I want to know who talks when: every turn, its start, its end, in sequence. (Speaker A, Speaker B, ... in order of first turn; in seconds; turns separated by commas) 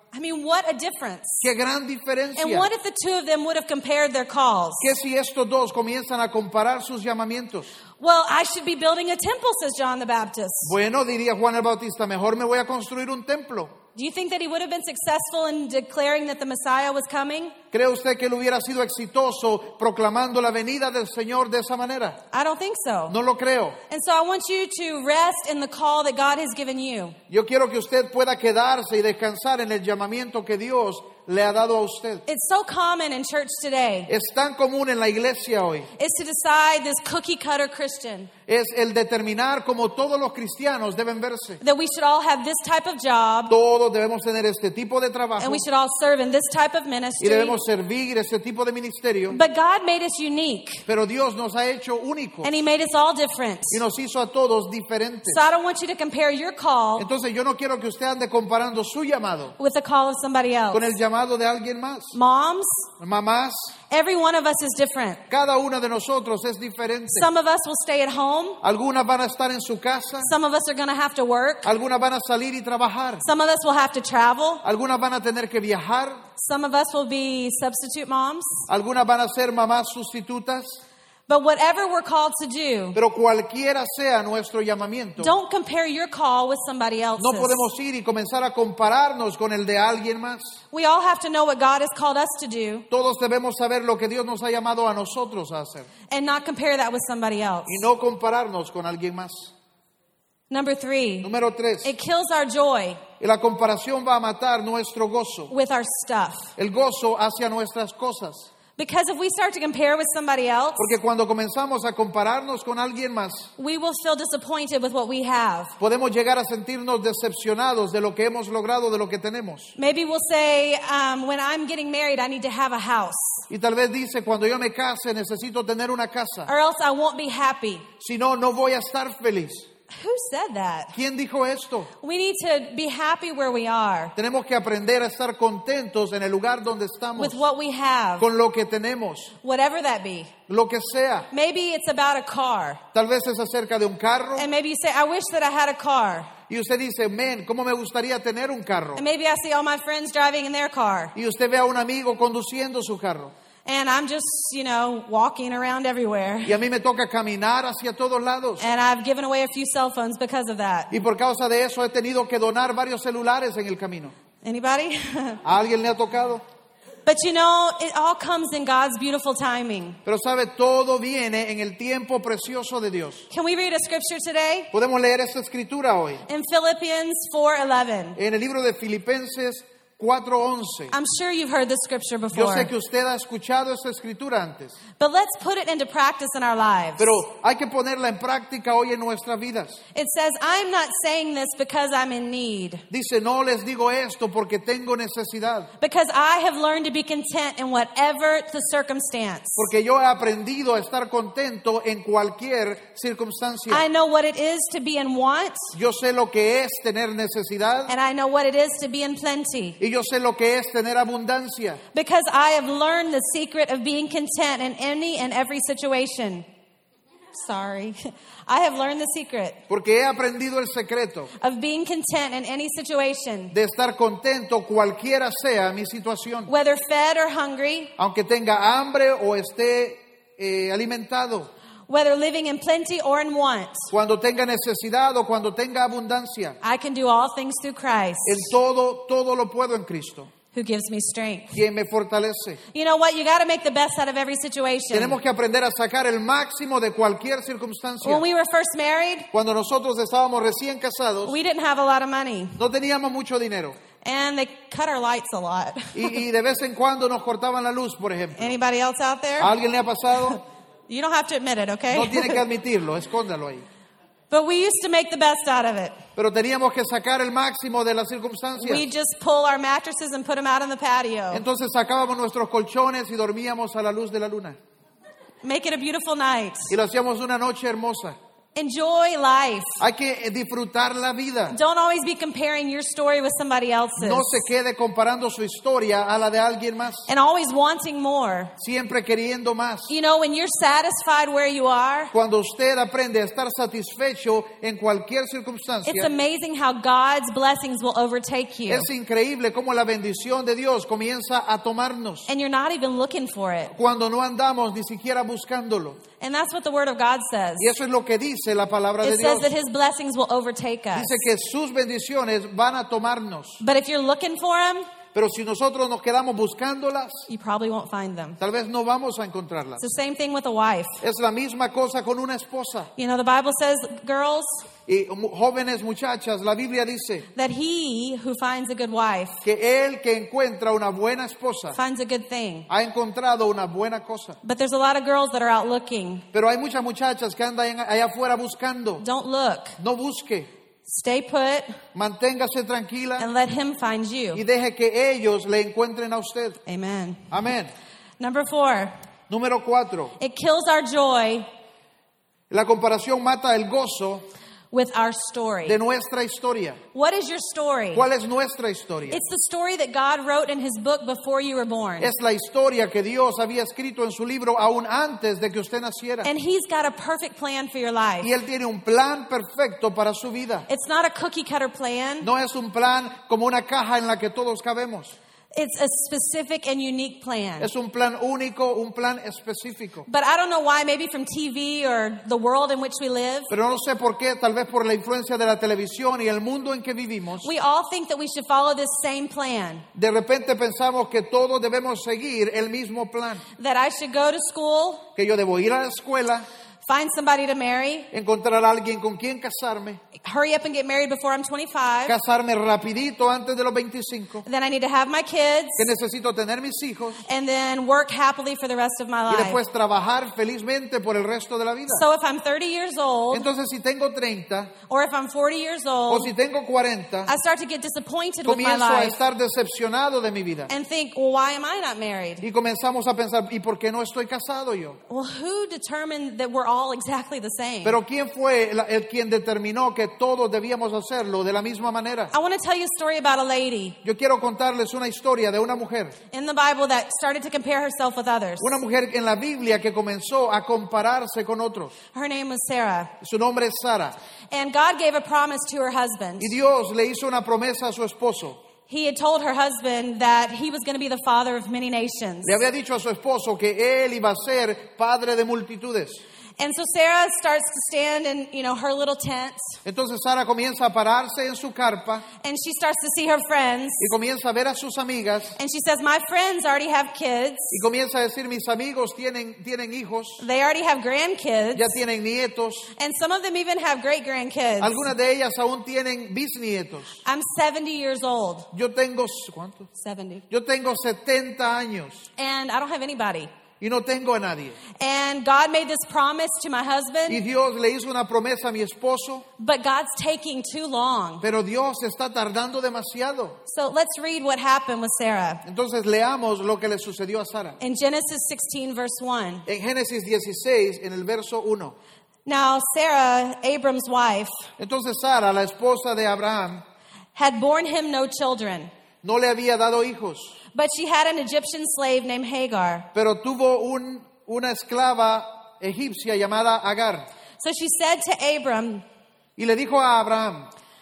Speaker A: 0.1-1.4, Speaker B: 1.4-2.7, Speaker A: 2.4-4.9, Speaker B: 4.8-7.7, Speaker A: 8.0-10.8, Speaker B: 10.6-13.8, Speaker A: 13.9-17.6, Speaker B: 17.7-22.2, Speaker A: 22.3-23.2, Speaker B: 23.1-23.8, Speaker A: 23.9-27.2, Speaker B: 27.3-32.3, Speaker A: 32.3-34.1, Speaker B: 34.1-35.9, Speaker A: 36.0-38.3, Speaker B: 38.5-41.6, Speaker A: 41.6-43.5, Speaker B: 43.5-45.6, Speaker A: 45.4-47.6, Speaker B: 47.2-49.4, Speaker A: 49.3-50.8, Speaker B: 50.9-52.5, Speaker A: 52.4-53.8, Speaker B: 53.7-55.4, Speaker A: 55.3-57.1, Speaker B: 57.0-59.6, Speaker A: 59.6-61.0, Speaker B: 60.7-62.2, Speaker A: 62.1-62.8, Speaker B: 63.0-63.8, Speaker A: 63.9-65.2, Speaker B: 65.3-67.3, Speaker A: 67.1-68.6, Speaker B: 68.6-70.3, Speaker A: 70.2-71.7, Speaker B: 71.6-73.2, Speaker A: 73.2-74.6, Speaker B: 74.6-76.2, Speaker A: 76.4-78.6, Speaker B: 78.7-80.8, Speaker A: 81.3-83.0, Speaker B: 83.0-85.3, Speaker A: 85.2-87.6, Speaker B: 87.2-90.6, Speaker A: 90.7-92.9, Speaker B: 92.9-95.9, Speaker A: 96.1-97.8, Speaker B: 97.7-99.5, Speaker A: 100.5-101.3, Speaker B: 101.2-101.9, Speaker A: 101.8-103.0, Speaker B: 103.2-105.5, Speaker A: 105.5-106.5, Speaker B: 106.6-108.5, Speaker A: 108.8-110.9, Speaker B: 110.8-113.5, Speaker A: 113.6-115.7, Speaker B: 115.8-119.7, Speaker A: 119.8-123.4, Speaker B: 123.5-126.5, Speaker A: 126.5-127.9, Speaker B: 128.0-129.7, Speaker A: 129.9-131.0, Speaker B: 130.9-131.9, Speaker A: 132.0-134.1, Speaker B: 134.2-137.4, Speaker A: 137.2-138.3, Speaker B: 138.2-139.3, Speaker A: 139.4-140.3, Speaker B: 140.5-141.3, Speaker A: 141.3-142.8, Speaker B: 142.9-144.5, Speaker A: 144.4-146.3, Speaker B: 146.5-149.0, Speaker A: 149.0-151.1, Speaker B: 151.2-153.3, Speaker A: 153.7-156.6, Speaker B: 156.4-158.7, Speaker A: 158.6-160.9, Speaker B: 160.9-164.1, Speaker A: 164.4-165.4, Speaker B: 165.4-166.4, Speaker A: 167.1-170.0, Speaker B: 170.1-173.3, Speaker A: 173.3-174.7, Speaker B: 174.7-176.3, Speaker A: 176.3-178.2, Speaker B: 178.2-180.9, Speaker A: 180.9-182.7, Speaker B: 182.3-184.8, Speaker A: 185.0-187.1, Speaker B: 187.0-189.8, Speaker A: 189.9-192.8, Speaker B: 192.9-195.7, Speaker A: 195.8-199.6, Speaker B: 199.6-203.8, Speaker A: 203.7-205.7, Speaker B: 205.7-207.9, Speaker A: 207.9-209.8, Speaker B: 209.8-211.8, Speaker A: 211.9-216.5, Speaker A: 217.3-219.6, Speaker B: 219.7-221.3, Speaker A: 221.4-223.5, Speaker B: 223.5-226.5, Speaker A: 226.5-227.9, Speaker B: 228.0-231.5, Speaker A: 231.9-233.9, Speaker B: 233.9-236.6, Speaker A: 236.6-238.5, Speaker B: 238.2-240.3, Speaker A: 240.5-241.6, Speaker B: 241.5-242.6, Speaker A: 242.7-245.2, Speaker B: 244.9-248.2, Speaker A: 248.0-249.3, Speaker B: 249.3-251.4, Speaker A: 251.2-252.6, Speaker B: 252.6-253.8, Speaker A: 254.0-256.2, Speaker B: 255.9-258.5, Speaker A: 258.4-259.5, Speaker B: 259.4-260.4, Speaker A: 260.9-262.4, Speaker B: 261.9-263.7, Speaker A: 264.3-266.0, Speaker B: 266.2-268.8, Speaker A: 268.6-271.4, Speaker B: 271.3-274.6, Speaker A: 275.4-276.7, Speaker B: 276.7-278.2, Speaker A: 278.6-279.8, Speaker B: 279.8-281.6, Speaker A: 281.5-284.4, Speaker B: 284.0-287.1, Speaker A: 287.1-288.5, Speaker B: 288.6-289.9, Speaker A: 289.9-292.1, Speaker B: 292.1-296.1, Speaker A: 295.9-298.9, Speaker B: 298.7-302.3, Speaker A: 302.3-303.7, Speaker B: 303.7-306.0, Speaker A: 306.2-307.7, Speaker B: 307.6-309.5, Speaker A: 309.0-311.2, Speaker B: 310.9-313.6, Speaker A: 313.6-314.9, Speaker B: 315.1-317.3, Speaker A: 317.3-318.4, Speaker B: 318.4-319.9, Speaker A: 319.8-321.0, Speaker B: 321.0-322.9, Speaker A: 323.0-324.7, Speaker B: 324.9-327.3, Speaker A: 327.3-329.4, Speaker B: 329.4-331.8, Speaker A: 331.7-332.7, Speaker B: 332.7-334.4, Speaker A: 334.4-336.3, Speaker B: 336.3-339.1, Speaker A: 339.0-339.8, Speaker B: 339.8-340.5, Speaker A: 340.9-341.8, Speaker B: 341.9-343.3, Speaker A: 343.2-344.4, Speaker B: 344.3-346.6, Speaker A: 346.7-347.3, Speaker B: 347.3-347.7, Speaker A: 348.2-348.9, Speaker B: 349.3-350.2, Speaker A: 350.2-351.5, Speaker B: 352.5-354.2, Speaker A: 354.7-355.8, Speaker B: 355.7-356.8, Speaker A: 356.9-358.1, Speaker B: 357.9-359.2, Speaker A: 359.1-362.1, Speaker B: 362.0-366.3, Speaker A: 366.2-368.3, Speaker B: 368.2-370.7, Speaker A: 370.7-372.3, Speaker B: 372.2-375.2, Speaker A: 375.5-377.7, Speaker B: 377.6-380.1, Speaker A: 380.1-383.5, Speaker B: 383.5-387.5, Speaker A: 387.4-389.9, Speaker B: 389.9-393.4, Speaker A: 393.6-395.1, Speaker B: 395.2-396.4, Speaker A: 396.9-398.1, Speaker B: 398.1-400.0, Speaker A: 400.2-402.1, Speaker B: 402.1-404.4, Speaker A: 404.4-405.9, Speaker B: 405.8-407.2, Speaker A: 407.3-409.6, Speaker B: 409.3-412.0, Speaker A: 411.9-413.5, Speaker B: 413.3-414.7, Speaker A: 414.9-416.3, Speaker B: 416.1-417.3, Speaker A: 417.3-419.2, Speaker B: 418.4-420.7, Speaker A: 420.7-422.4, Speaker B: 422.4-425.0, Speaker A: 425.1-428.0, Speaker B: 427.8-432.3, Speaker A: 432.3-434.0, Speaker B: 434.0-436.2, Speaker A: 436.3-438.8, Speaker B: 438.6-441.9, Speaker A: 442.1-443.1, Speaker B: 443.2-444.1, Speaker A: 444.5-446.5, Speaker B: 446.4-448.6, Speaker A: 448.9-452.6, Speaker B: 452.4-456.2, Speaker A: 456.6-459.8, Speaker B: 459.9-462.2, Speaker A: 462.4-464.1, Speaker B: 464.0-465.6, Speaker A: 465.6-467.7, Speaker B: 467.7-470.4, Speaker A: 470.4-472.0, Speaker B: 471.8-472.9, Speaker A: 473.0-475.1, Speaker B: 474.8-477.2, Speaker A: 477.2-478.7, Speaker B: 478.7-479.9, Speaker A: 479.9-480.4, Speaker B: 480.5-482.3, Speaker A: 482.4-483.5, Speaker B: 483.8-484.8, Speaker A: 485.0-487.4, Speaker B: 487.3-489.4, Speaker A: 489.6-491.4, Speaker B: 491.4-493.6, Speaker A: 493.7-495.6, Speaker B: 495.6-497.8, Speaker A: 497.8-499.6, Speaker B: 499.7-501.9, Speaker A: 502.5-504.6, Speaker B: 504.8-506.8, Speaker A: 507.4-508.9, Speaker B: 509.2-510.6, Speaker A: 510.7-513.1, Speaker B: 513.1-517.3, Speaker A: 517.6-519.0, Speaker B: 519.6-520.7